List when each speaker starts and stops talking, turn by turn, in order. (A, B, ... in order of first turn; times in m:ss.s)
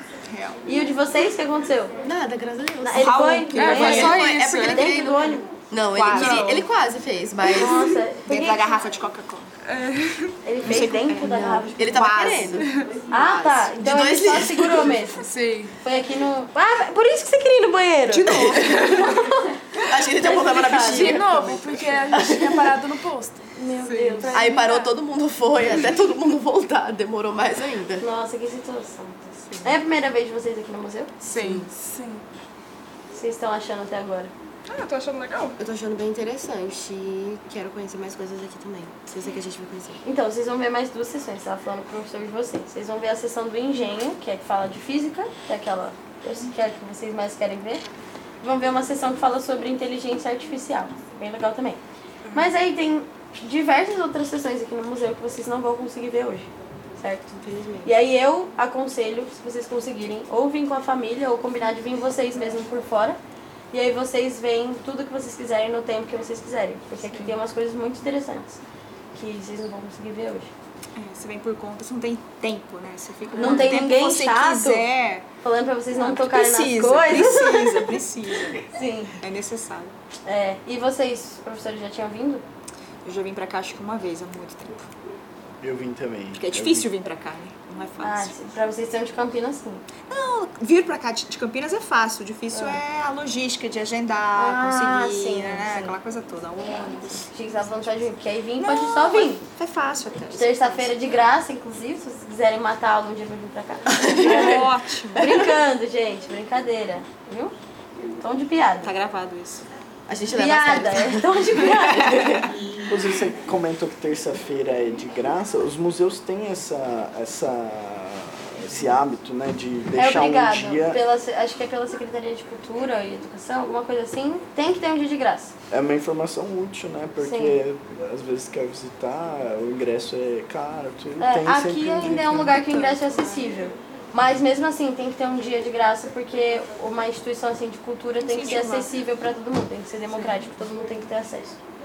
0:00.3-0:00.6 A
0:00.6-0:02.0 B
0:02.0-0:03.1 C
0:02.8-0:05.5 B
0:02.9-0:04.2 A
0:03.5-0:05.0 D
0:03.7-0:08.0 C
0:05.9-0:06.4 A
0:06.2-0:06.7 D
0:07.5-0:08.8 B
0:08.3-0:09.5 A
0:09.6-0:10.4 D
0:10.4-0:12.1 B
0:10.6-0:12.7 A
0:11.2-0:15.0 C
0:12.6-0:12.9 D
0:13.1-0:15.2 B
0:15.2-0:15.8 D
0:15.8-0:21.3 B
0:18.1-0:19.1 A
0:19.8-0:22.7 C
0:20.7-0:23.4 E
0:23.6-0:24.4 B
0:23.8-0:24.3 D
0:24.0-0:25.0 E
0:24.3-0:28.0 C
0:28.0-0:31.1 B
0:31.2-0:31.7 D
0:31.4-0:31.7 C
0:31.7-0:32.2 E
0:33.1-0:34.3 B
0:34.7-0:35.6 D
0:35.6-0:40.0 C
0:40.0-0:47.8 B
0:48.4-0:51.8 B
0:52.3-0:57.3 B
0:57.4-0:57.9 C
0:57.8-1:03.2 B
1:03.7-1:08.6 B
1:09.1-1:10.5 B
1:11.0-1:15.3 A
1:13.4-1:14.9 B
1:15.4-1:18.0 B
1:15.9-1:18.7 A
1:18.7-1:19.2 B
1:19.2-1:19.9 A
1:20.2-1:22.4 B
1:23.0-1:24.9 A
1:25.6-1:26.9 F
1:26.4-1:28.3 A
1:28.0-1:29.8 B
1:30.1-1:37.3 A
1:32.5-1:32.8 B
1:34.4-1:36.0 B
1:36.7-1:39.4 B
1:38.6-1:40.9 A
1:40.3-1:47.5 B
1:43.9-1:44.6 C
1:44.1-1:45.4 A
1:48.2-1:48.9 B
1:48.8-1:49.6 A
1:50.1-1:52.5 C
1:50.3-1:52.2 B
1:52.9-2:01.0 F
2:00.0-2:05.5 B
2:05.7-2:12.7 F
2:07.2-2:07.6 B
2:11.2-2:21.6 B
2:12.7-2:13.1 A
2:18.2-2:18.9 A